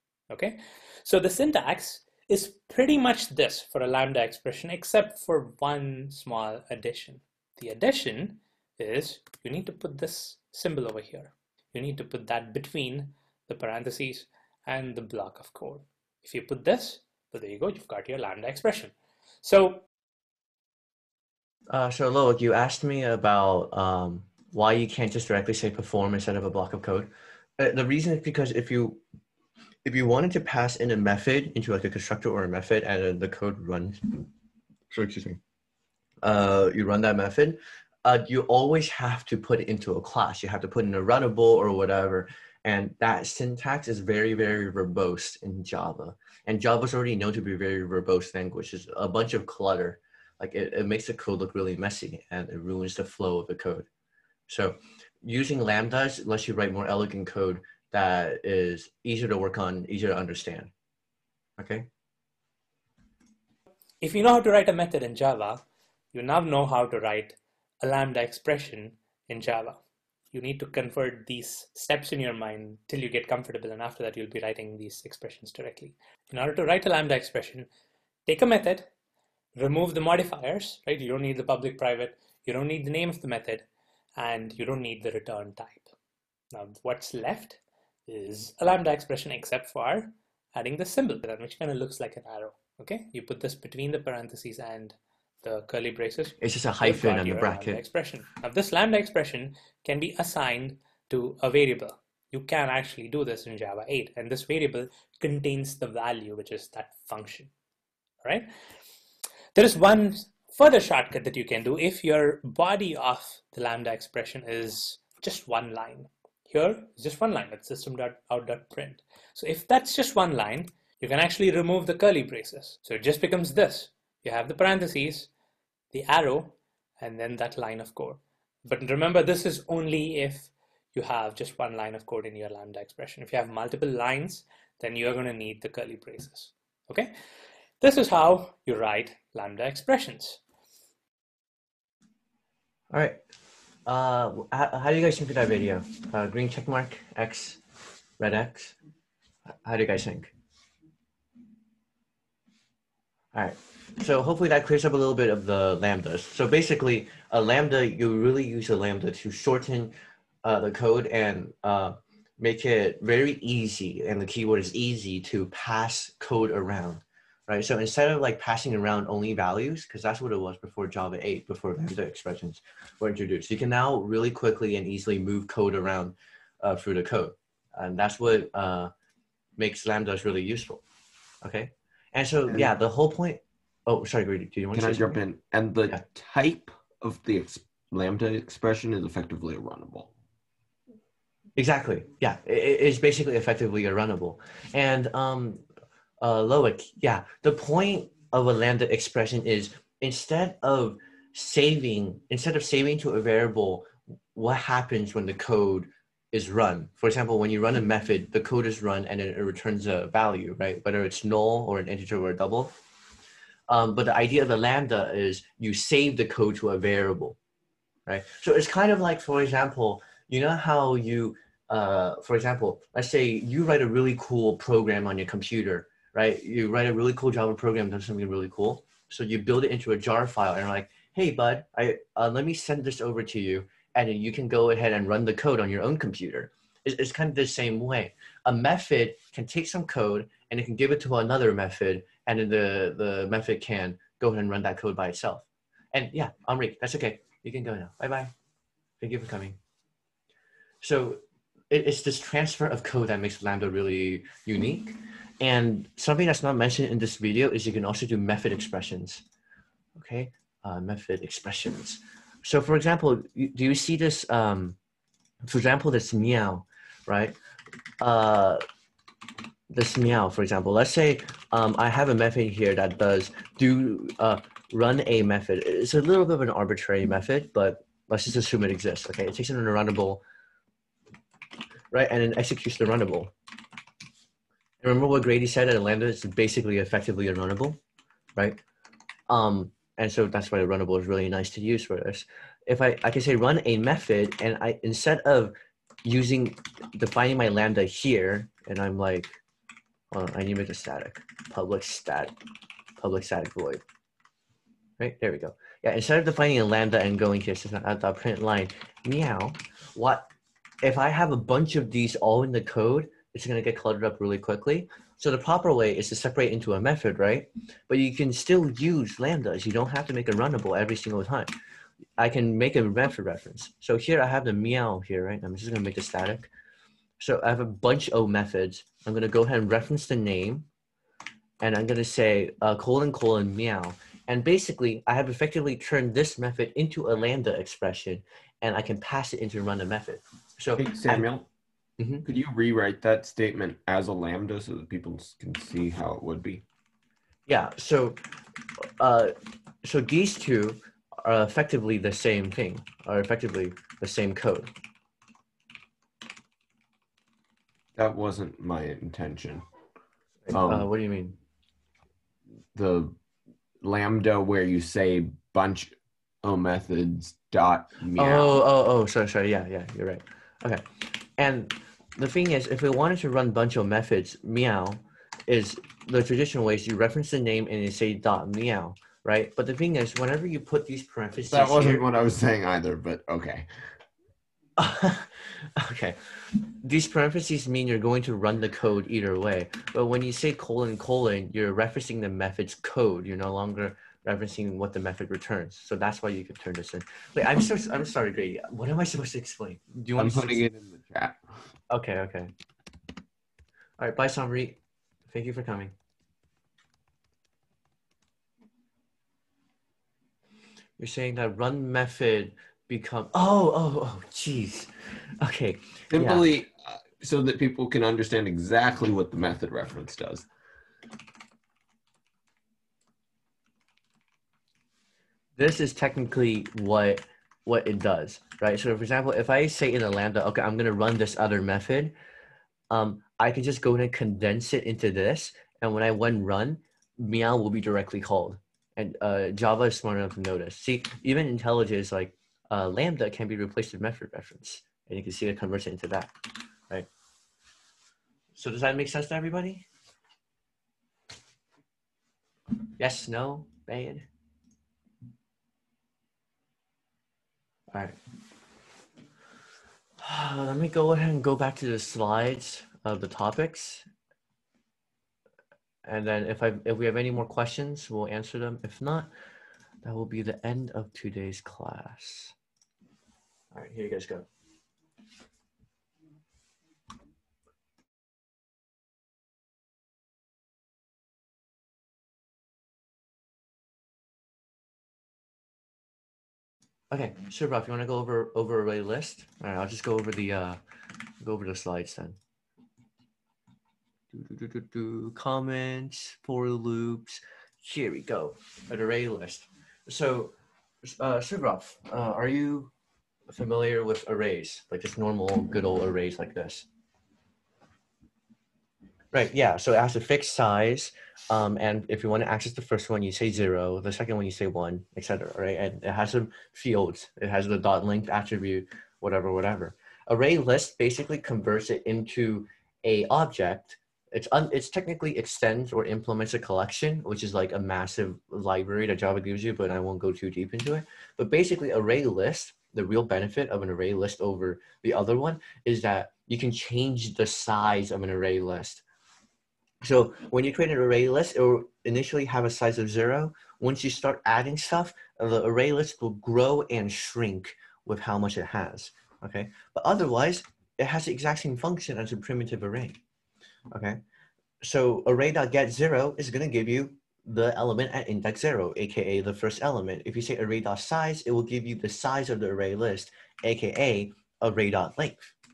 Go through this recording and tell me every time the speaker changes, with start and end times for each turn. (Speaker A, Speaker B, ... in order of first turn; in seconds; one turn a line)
Speaker A: 0.3-19.8
Speaker B: 21.7-29.0
Speaker B: 29.8-34.3
Speaker B: 34.9-35.4
Speaker B: 36.2-53.9
Speaker B: 54.5-60.7
Speaker B: 61.6-61.9
Speaker A: 64.0-65.6
Speaker A: 66.1-69.8
Speaker A: 70.3-77.7
Speaker A: 78.2-78.9
Speaker A: 79.5-85.9
Speaker A: 86.5-107.5
Speaker B: 96.4-97.8
Speaker A: 108.2-108.5
Speaker A: 109.5-125.3
Speaker A: 125.9-137.1
Speaker A: 137.8-140.4
Speaker B: 142.9-143.2
Speaker B: 143.8-147.6
Speaker B: 148.2-148.8
Speaker B: 149.6-150.3
Speaker B: 153.3-178.9
Speaker B: 179.6-180.8
Speaker B: 181.4-185.2
Speaker C: 184.7-190.1
Speaker B: 191.6-195.6
Speaker B: 196.2-212.7
Speaker B: 213.7-217.4
Speaker B: 218.1-248.3
Speaker B: 249.0-249.6
Speaker B: 250.8-259.2
Speaker B: 259.9-264.8
Speaker B: 265.4-267.4
Speaker B: 268.0-268.6
Speaker B: 269.7-280.2
Speaker B: 281.9-283.3
Speaker B: 284.8-287.8
Speaker B: 288.4-288.6
Speaker B: 289.3-299.4
Speaker B: 300.1-302.3
Speaker B: 303.0-303.8
Speaker B: 305.0-310.3
Speaker B: 310.8-321.5
Speaker B: 322.2-326.5
Speaker B: 327.2-330.7
Speaker B: 331.6-341.3
Speaker C: 340.8-341.5
Speaker B: 342.0-342.2
Speaker C: 342.2-346.6
Speaker B: 347.5-348.2
Speaker B: 348.8-354.7
Speaker C: 357.9-359.6
Speaker B: 360.5-361.4
Speaker C: 360.5-360.9
Speaker C: 362.7-363.1
Speaker C: 363.8-368.6
Speaker B: 368.2-382.0
Speaker C: 381.5-383.7
Speaker B: 384.8-386.2
Speaker B: 386.8-400.6
Speaker C: 400.2-401.4
Speaker B: 401.9-402.5
Speaker B: 404.0-405.9
Speaker B: 411.0-416.4
Speaker C: 416.1-420.4
Speaker B: 425.6-432.1
Speaker B: 432.9-446.3
Speaker B: 448.5-449.8
Speaker B: 453.0-454.2
Speaker B: 457.9-458.1
Speaker B: 460.2-464.0
Speaker B: 466.0-469.3
Speaker B: 470.0-472.5
Speaker B: 473.7-474.5
Speaker B: 487.1-490.8
Speaker B: 491.4-492.4
Speaker B: 494.3-502.9
Speaker B: 503.5-506.9
Speaker B: 509.3-539.0
Speaker B: 540.0-553.2
Speaker B: 553.9-554.2
Speaker B: 554.8-565.5